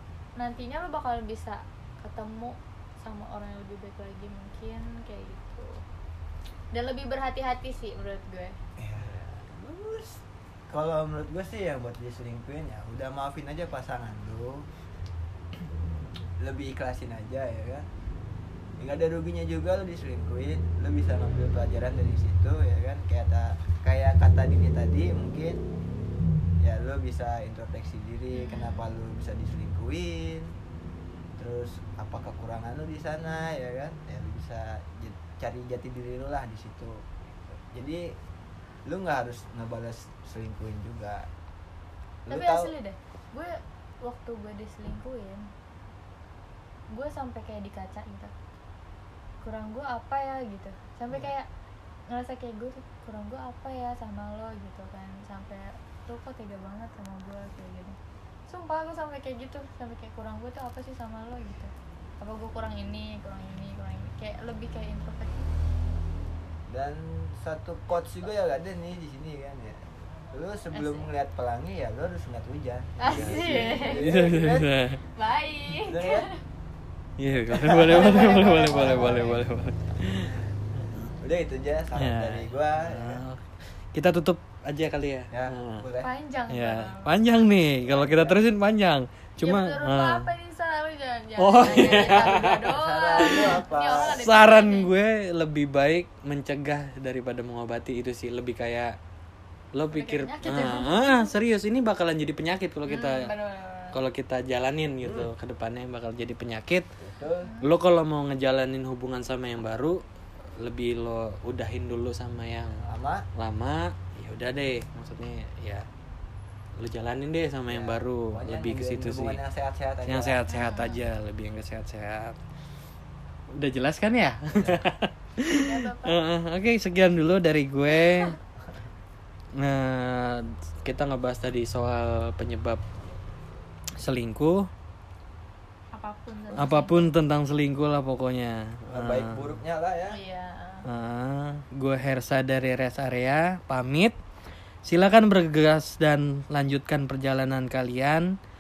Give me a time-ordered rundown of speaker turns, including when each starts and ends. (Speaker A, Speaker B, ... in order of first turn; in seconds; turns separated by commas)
Speaker A: 0.4-5.8, Speaker A: 6.7-8.6, Speaker B: 8.8-14.7, Speaker B: 16.4-17.9, Speaker B: 18.8-25.6, Speaker B: 26.6-30.5, Speaker A: 28.3-28.8, Speaker B: 31.4-38.1, Speaker B: 38.9-41.3, Speaker B: 42.3-42.7, Speaker A: 42.3-45.5, Speaker A: 46.9-48.3, Speaker A: 49.4-51.5, Speaker A: 52.1-58.0, Speaker A: 58.5-65.5, Speaker B: 66.7-74.8, Speaker A: 70.7-71.1, Speaker A: 73.0-74.0, Speaker C: 73.1-75.0, Speaker A: 75.1-76.4, Speaker B: 75.8-76.3, Speaker C: 77.2-81.1, Speaker B: 77.5-79.3, Speaker A: 77.9-79.4, Speaker B: 81.1-83.2, Speaker C: 82.0-85.9, Speaker B: 85.3-86.1, Speaker A: 86.0-87.6, Speaker C: 86.5-90.3, Speaker B: 87.8-88.4, Speaker A: 89.4-94.9, Speaker C: 91.4-98.9, Speaker B: 91.9-94.2, Speaker C: 99.8-103.3, Speaker A: 99.9-101.3, Speaker A: 102.9-104.0, Speaker C: 103.9-106.9, Speaker B: 105.0-105.3, Speaker B: 107.0-107.5, Speaker A: 107.4-107.7, Speaker C: 107.6-110.0, Speaker C: 110.6-112.8, Speaker B: 112.8-113.2, Speaker C: 113.4-115.9, Speaker C: 116.8-119.4, Speaker B: 117.7-120.5, Speaker C: 120.1-122.4, Speaker A: 120.5-121.0, Speaker C: 123.5-128.3, Speaker B: 124.6-124.8, Speaker A: 125.5-126.2, Speaker A: 127.9-128.3, Speaker C: 129.6-132.8, Speaker C: 134.0-134.7, Speaker A: 135.9-137.1, Speaker C: 136.5-139.6, Speaker B: 138.9-140.2, Speaker A: 140.1-140.8, Speaker C: 140.8-144.2, Speaker C: 144.8-148.3